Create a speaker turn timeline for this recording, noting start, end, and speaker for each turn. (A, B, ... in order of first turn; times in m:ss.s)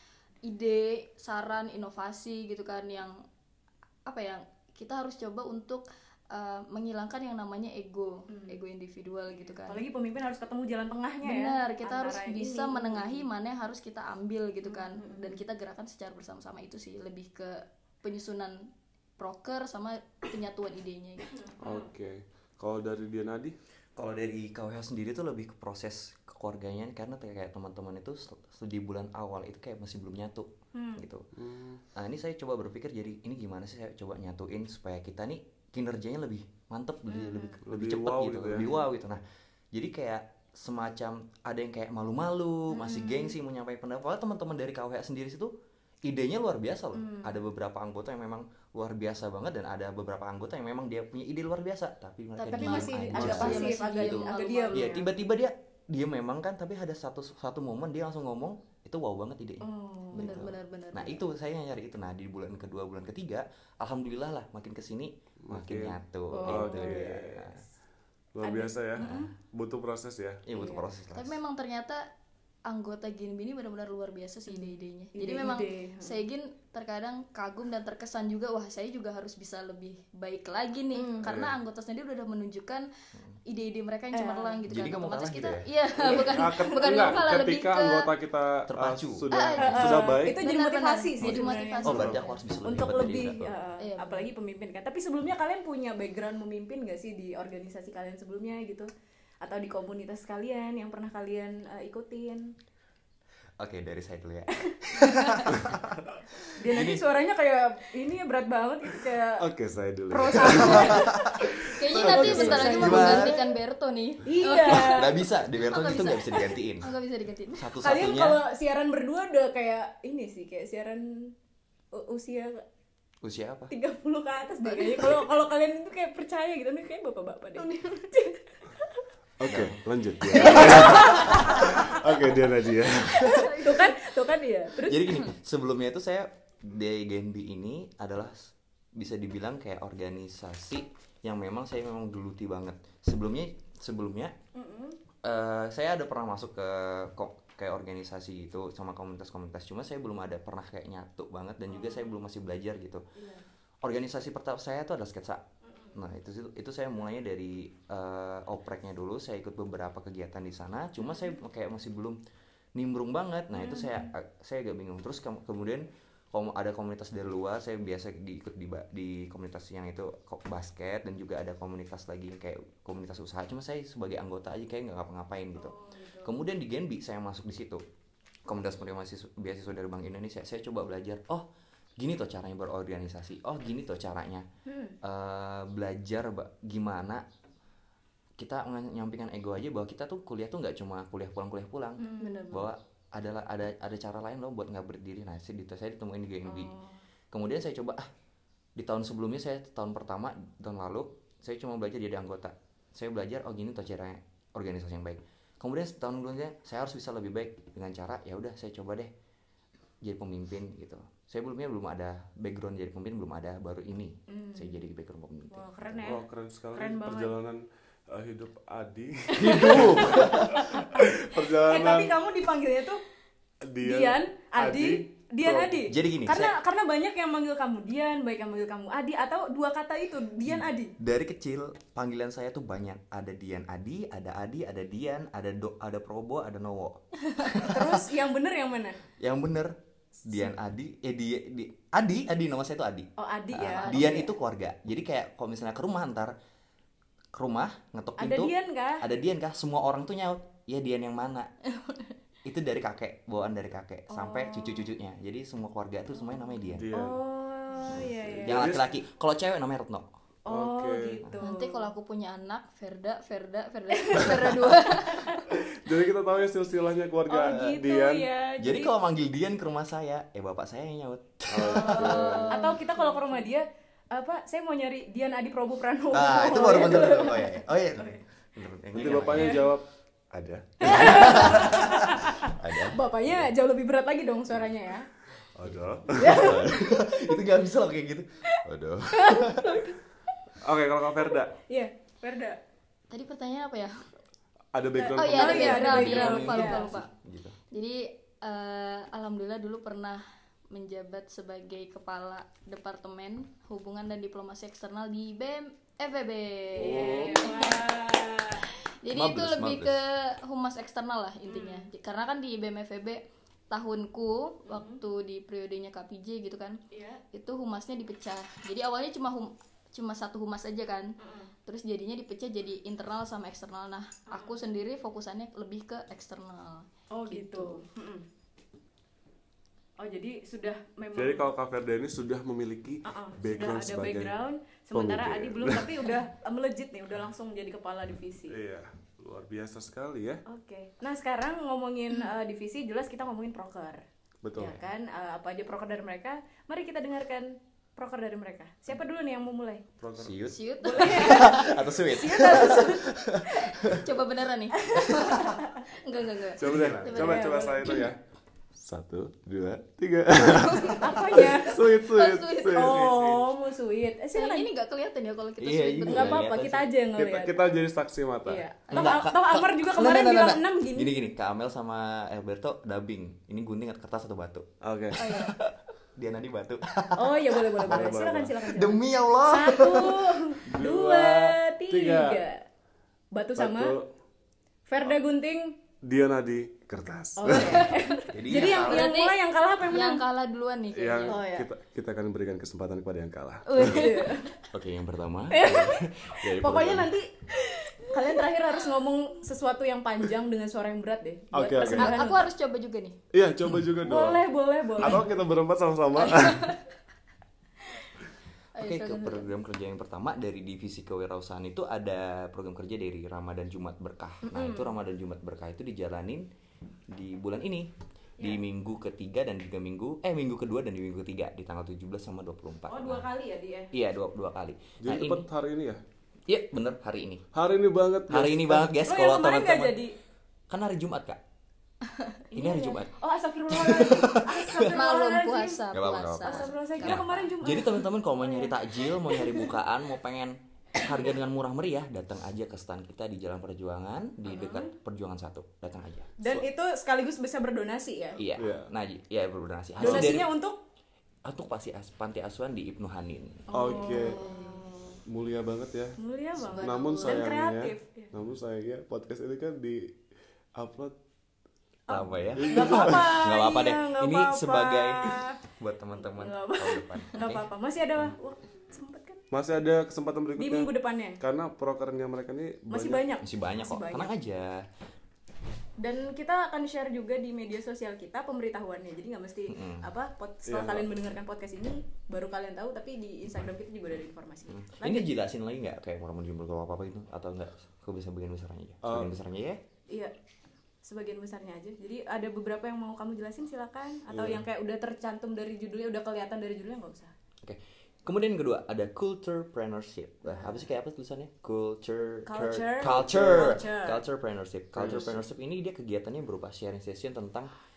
0:00.4-0:03.2 A
0:04.0-0:09.8 A
0:08.3-0:08.6 B
0:09.7-0:13.2 B
0:11.2-0:21.4 A
0:14.6-0:15.4 B
0:21.4-0:21.9 B
0:21.6-0:23.6 C
0:24.0-0:31.3 D
0:30.7-0:31.0 B
0:31.3-0:31.8 C
0:31.9-0:39.2 D
0:37.1-0:37.6 B
0:37.6-0:38.7 C
0:39.7-0:45.5 D
0:42.7-0:43.3 B
0:46.0-1:07.6 D
0:46.9-0:47.4 B
0:52.4-0:55.0 A
0:52.5-0:55.1 B
0:59.6-1:00.5 B
1:00.1-1:01.2 A
1:05.4-1:07.5 C
1:06.3-1:07.4 B
1:08.3-1:10.4 C
1:08.4-1:09.3 B
1:09.0-1:09.3 D
1:10.4-1:11.4 D
1:10.5-1:10.8 B
1:11.1-1:12.1 A
1:12.6-1:22.9 A
1:14.5-1:16.2 B
1:20.9-1:21.3 B
1:21.2-1:21.6 C
1:23.4-1:28.1 A
1:24.1-1:24.6 B
1:24.7-1:25.7 D
1:26.0-1:30.4 C
1:26.1-1:27.2 B
1:28.7-1:29.3 D
1:29.3-1:32.4 A
1:29.6-1:38.9 B
1:31.2-1:33.5 D
1:33.8-1:34.2 A
1:39.4-1:42.5 B
1:43.6-1:47.0 D
1:44.6-1:45.5 B
1:46.6-1:49.4 B
1:49.4-1:51.5 C
1:50.1-1:51.2 B
1:50.6-1:53.4 D
1:51.6-1:55.1 A
1:52.0-1:53.5 B
1:54.2-1:55.1 B
1:54.6-1:56.9 D
1:55.7-1:57.7 A
1:57.5-1:58.4 D
1:57.8-2:01.3 B
2:01.9-2:02.6 B
2:03.2-2:03.7 D
2:03.7-2:08.9 B
2:04.6-2:05.0 A
2:09.4-2:13.3 C
2:09.4-2:09.8 D
2:10.3-2:12.1 B
2:10.3-2:11.8 D
2:13.2-2:13.6 D
2:13.3-2:13.9 A
2:13.3-2:15.3 B
2:14.8-2:24.3 D
2:24.5-2:25.0 B
2:25.2-2:33.0 D
2:31.7-2:32.2 B
2:33.1-2:33.4 B
2:33.8-2:42.2 D
2:35.6-2:36.0 B
2:41.0-2:41.4 B
2:42.7-2:57.8 D
2:43.6-2:44.1 B
2:55.5-2:56.4 B
2:58.5-3:01.4 D
3:02.0-3:04.4 D
3:04.7-3:05.0 B
3:05.0-3:07.2 D
3:08.4-3:16.7 D
3:12.0-3:12.7 B
3:12.2-3:12.6 A
3:16.4-3:17.0 B
3:17.3-3:18.1 D
3:18.8-3:29.1 D
3:30.0-3:36.1 D
3:34.3-3:34.8 B
3:35.5-3:37.4 B
3:36.0-3:42.2 C
3:39.3-3:43.0 B
3:39.4-3:40.5 D
3:43.6-3:45.9 C
3:43.8-3:50.9 B
3:45.9-3:46.5 D
3:50.5-3:58.0 D
3:57.5-3:59.0 B
3:59.2-3:59.7 D
4:00.2-4:06.3 D
4:03.2-4:04.3 B
4:03.8-4:04.3 A
4:07.3-4:11.5 D
4:08.2-4:09.0 B
4:12.4-4:16.9 D
4:14.1-4:14.9 B
4:16.7-4:17.2 C
4:16.9-4:18.8 B
4:17.9-4:18.8 C
4:17.9-4:20.1 D
4:20.4-4:21.9 B
4:20.5-4:21.3 C
4:21.4-4:25.5 A
4:23.9-4:25.4 B
4:25.5-4:28.3 C
4:27.3-4:28.9 B
4:28.6-4:32.5 D
4:31.5-4:32.6 C
4:31.7-4:33.4 A
4:31.8-4:38.2 B
4:36.1-4:39.6 D
4:38.9-4:39.8 C
4:39.0-4:39.7 B
4:40.4-4:41.4 C
4:40.8-4:43.5 D
4:40.8-4:45.1 B
4:45.6-4:46.6 C
4:45.6-4:49.9 D
4:46.2-4:46.9 B
4:49.1-4:50.0 B
4:50.6-4:51.6 C
4:51.2-4:52.6 B
4:53.1-4:54.0 A
4:54.7-4:56.1 C
4:55.0-4:57.1 A
4:55.2-4:56.9 B
4:55.4-4:57.6 D
4:57.7-5:07.9 A
5:06.8-5:07.4 C
5:06.8-5:08.6 B
5:08.6-5:16.8 A
5:09.1-5:10.0 D
5:11.5-5:11.8 B
5:14.6-5:15.0 B
5:16.9-5:17.2 B
5:17.3-5:21.1 A
5:21.2-5:21.5 B
5:21.6-5:27.8 A
5:24.3-5:24.6 B
5:27.1-5:28.2 B
5:30.0-5:31.5 B
5:31.1-5:34.4 C
5:33.0-5:38.6 B
5:34.9-5:36.1 C
5:38.5-5:40.4 C
5:40.4-5:44.0 B
5:44.4-5:44.8 C
5:44.6-5:49.8 B
5:50.0-5:50.5 C
5:50.2-5:54.0 D
5:50.4-5:51.8 A
5:50.8-5:53.7 B
5:53.8-5:58.0 A
5:54.8-5:55.8 B
5:56.6-5:58.2 C
5:56.6-5:57.3 D
5:57.0-5:58.1 B
5:58.8-6:03.5 C
6:00.8-6:01.9 B
6:01.8-6:03.1 A
6:02.7-6:04.7 B
6:04.3-6:06.5 A
6:05.6-6:06.9 D
6:06.1-6:07.7 B
6:07.2-6:08.6 C
6:08.4-6:11.1 B
6:08.9-6:09.2 A
6:08.9-6:20.4 D
6:14.8-6:15.2 C
6:15.2-6:15.6 A
6:17.2-6:22.6 B
6:17.8-6:18.6 C
6:20.6-6:22.4 C
6:23.3-6:24.0 B
6:23.6-6:24.1 C
6:24.9-6:25.8 B
6:26.0-6:28.0 C
6:27.4-6:30.2 B
6:28.3-6:29.1 D
6:28.5-6:31.4 A
6:30.9-6:34.2 C
6:31.2-6:31.7 B
6:33.7-6:34.6 B
6:33.8-6:34.5 A
6:34.7-6:37.1 D
6:35.5-6:42.4 B
6:41.5-6:42.3 C
6:41.8-6:43.2 A
6:43.3-6:44.4 C
6:44.0-6:45.3 B
6:45.0-6:46.8 C
6:46.3-6:46.8 A
6:48.8-6:49.5 A
6:48.8-6:56.4 D
6:54.4-6:55.0 B
6:57.1-7:03.3 D
7:02.9-7:03.9 B
7:03.9-7:05.5 D
7:05.0-7:06.0 C
7:06.5-7:07.4 D
7:07.5-7:08.9 C
7:08.3-7:10.0 D
7:09.0-7:10.2 B
7:10.7-7:11.4 D
7:12.5-7:15.8 B
7:12.5-7:13.1 D
7:13.7-7:14.9 D
7:14.9-7:17.4 A
7:15.9-7:26.6 D
7:16.4-7:19.7 B
7:21.0-7:21.3 B
7:24.4-7:24.9 B
7:26.4-7:28.4 B
7:28.4-7:30.5 D
7:28.6-7:28.9 C
7:30.0-7:30.8 B
7:30.0-7:30.4 C
7:31.4-7:33.7 D
7:33.7-7:35.2 B
7:33.7-7:34.4 C
7:33.9-7:34.8 A
7:35.3-7:40.2 C
7:36.2-7:38.3 B
7:36.7-7:37.5 A
7:40.8-7:41.2 C
7:42.1-7:45.6 B
7:42.1-7:47.6 D
7:42.5-7:43.4 C
7:46.1-7:49.4 B
7:49.5-7:53.2 C
7:50.6-7:51.4 B
7:52.9-7:54.3 B
7:53.4-7:54.8 D
7:56.0-8:05.3 B
7:59.7-8:00.1 D
8:00.7-8:01.1 C
8:04.7-8:09.8 D
8:09.0-8:09.3 C
8:11.0-8:17.3 B
8:14.3-8:14.6 C
8:17.6-8:27.7 D
8:20.4-8:20.8 B
8:22.4-8:24.2 B
8:23.0-8:23.8 C
8:24.9-8:25.4 C